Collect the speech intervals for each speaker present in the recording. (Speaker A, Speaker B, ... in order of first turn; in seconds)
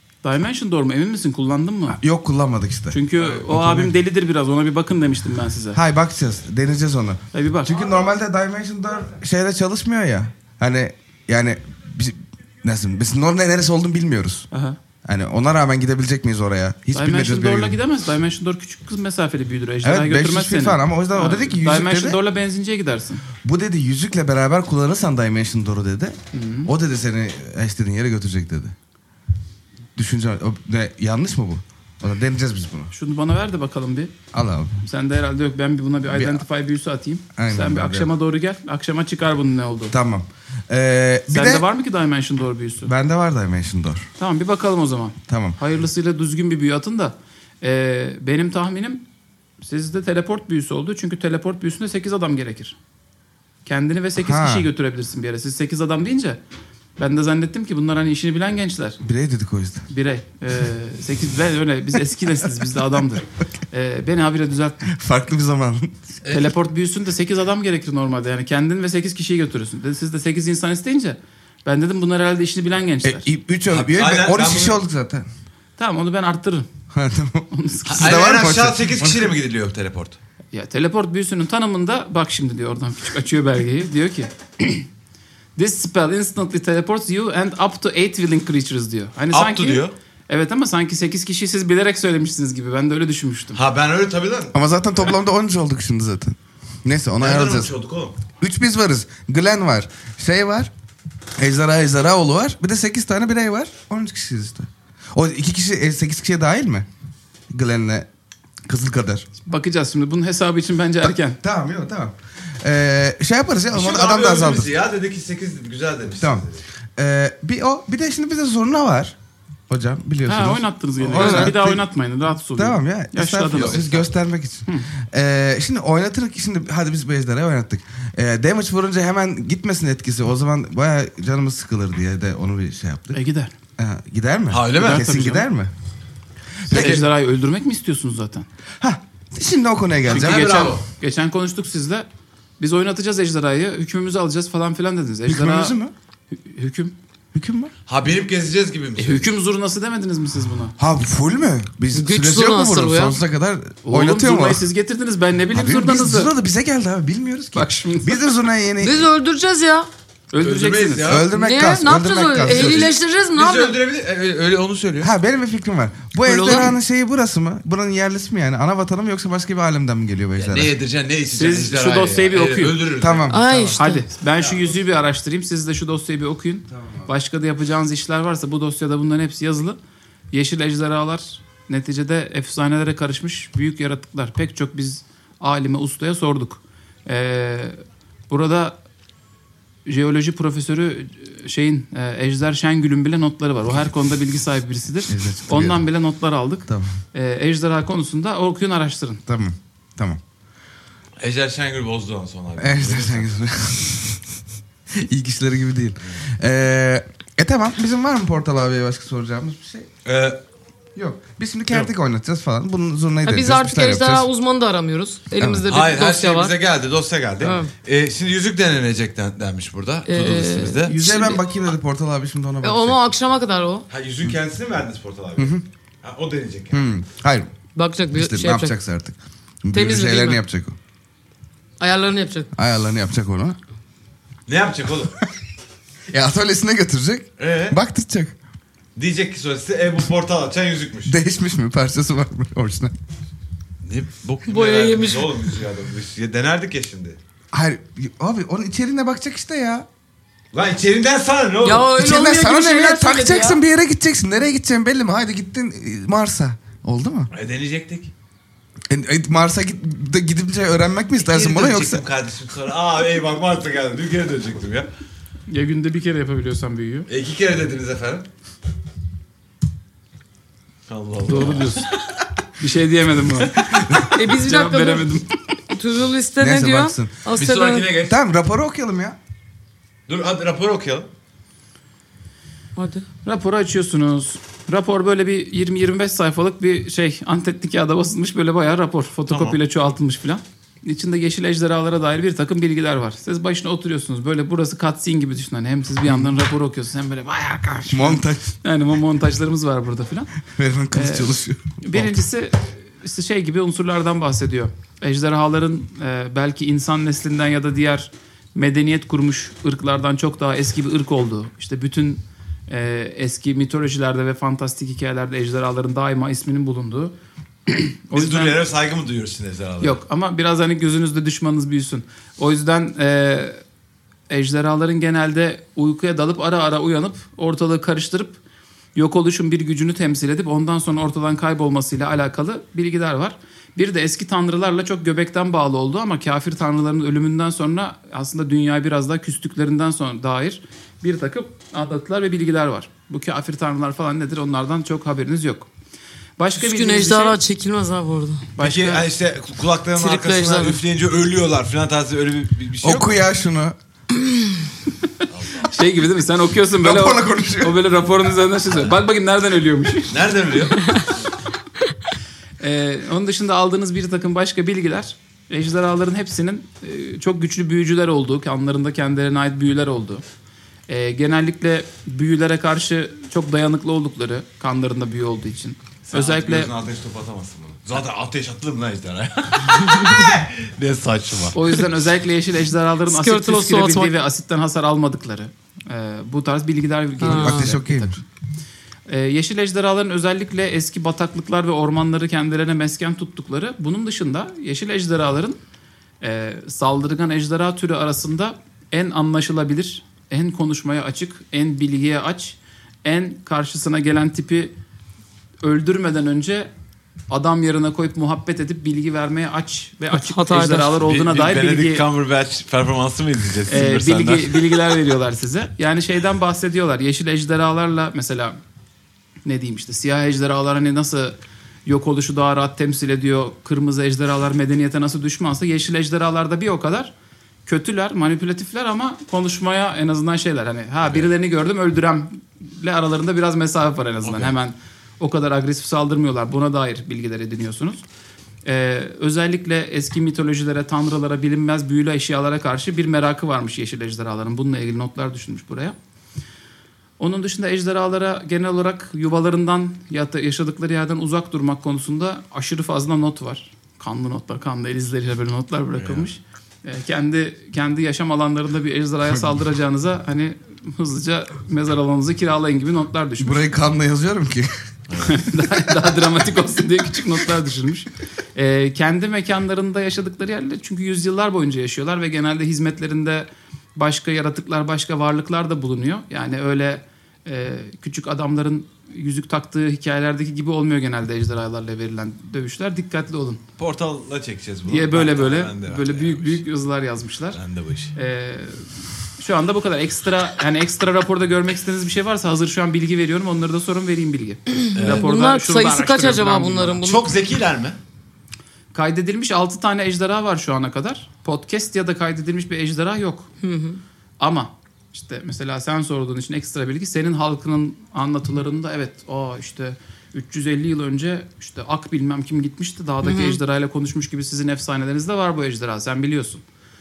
Speaker A: 0.2-2.0, 2.9-5.8, 7.3-7.8, 14.5-14.8, 16.9-23.2, 26.3-26.7, 32.9-34.1, 34.8-39.9, 41.3-42.9, 44.2-49.0, 49.6-52.8, 53.6-56.4, 57.0-59.0, 59.9-64.9, 66.2-73.3, 75.8-76.7, 77.5-78.2, 80.5-84.9, 85.5-93.6, 109.4-111.4, 120.2-123.8, 133.1-133.5, 134.7-135.5, 136.7-138.5, 140.1-142.1, 142.6-145.8, 146.3-146.9, 149.0-150.8, 153.8-156.3, 157.5-158.2, 160.3-161.2, 171.3-172.8, 173.8-179.8, 180.3-188.8, 189.8-199.2, 265.5-267.1, 271.2-271.9, 272.6-275.4, 283.2-300.3, 300.9-317.1, 317.7-318.6, 319.8-323.6, 324.3-328.4, 328.9-345.7, 346.4-347.4, 348.6-349.1, 355.6-360.2, 362.6-370.2, 370.9-376.7, 381.5-388.2, 389.1-395.6, 396.2-404.7, 405.6-406.7, 407.3-412.0, 413.7-418.6, 419.4-427.1, 427.6-438.0, 438.6-445.9, 447.2-463.6, 465.2-483.6, 484.9-487.6, 488.1-497.0, 498.9-503.5, 504.4-516.6
Speaker B: 1.9-4.0, 5.7-14.5, 15.0-17.8, 19.8-22.2, 23.4-28.7, 29.9-32.9, 34.3-34.8, 36.1-36.4, 37.3-38.1, 39.9-41.6, 42.8-44.1, 45.3-45.6, 54.2-54.7, 59.0-59.9, 64.9-65.9, 73.0-75.2, 76.9-79.3, 94.5-97.7, 98.4-100.7, 101.4-106.9, 107.5-108.1, 108.7-109.2, 111.0-114.7, 116.2-116.4, 117.0-119.1, 119.7-121.8, 122.5-133.2, 133.8-135.7, 136.7-137.0, 138.8-140.7, 145.3-145.9, 147.3-147.7, 150.8-154.7, 155.5-159.1, 161.0-162.9, 165.0-170.7, 173.0-173.8, 176.7-177.1, 195.1-195.8, 196.7-197.0, 199.3-200.2, 202.6-204.2, 204.9-209.9, 210.9-214.3, 215.4-215.7, 220.8-223.0, 225.4-225.6, 226.7-227.5, 228.1-230.8, 232.5-233.6, 236.1-238.3, 241.1-242.9, 247.5-249.8, 251.9-257.3, 258.9-262.0, 273.7-274.1, 276.4-277.2, 278.0-279.2, 297.9-298.5, 300.5-302.2, 352.8-353.8, 356.8-357.8, 387.2-388.2, 463.4-464.7
Speaker C: 66.2-66.5, 73.7-74.8, 77.8-80.2, 89.3-89.9, 93.5-94.5, 97.2-98.2, 113.7-116.6, 123.5-124.1, 134.5-135.1, 136.7-137.1, 140.1-140.8, 147.9-149.2, 160.4-161.3, 162.4-165.1, 170.4-173.4, 201.2-203.3, 210.0-210.4, 215.7-220.9, 223.9-226.9, 234.5-235.2, 237.4-237.8, 238.9-241.2, 243.8-247.2, 250.5-251.9, 257.3-258.1, 261.2-264.9, 267.1-268.3, 270.9-272.0, 277.3-278.2, 280.1-281.1, 289.3-289.6, 318.1-320.0, 348.6-353.2, 355.3-355.7, 360.1-361.1, 376.1-381.6, 411.0-414.8, 434.2-434.5, 455.9-456.3, 465.1-465.4, 483.8-486.6, 487.5-488.1, 494.9-495.3, 497.0-498.0
Speaker D: 121.2-121.5, 151.9-153.1, 158.8-159.9, 161.3-163.8, 166.2-166.7, 173.3-174.0, 213.2-216.5, 217.4-217.7, 220.1-221.4, 222.6-223.8, 227.7-228.7, 229.7-230.4, 231.8-232.5, 244.5-245.5, 251.6-253.6, 274.1-275.1, 275.7-277.9, 282.8-283.1, 346.6-348.4, 349.9-350.8, 354.2-354.5, 383.1-384.1, 387.2-387.7, 410.1-410.9, 494.9-497.3, 503.6-504.0, 513.2-513.6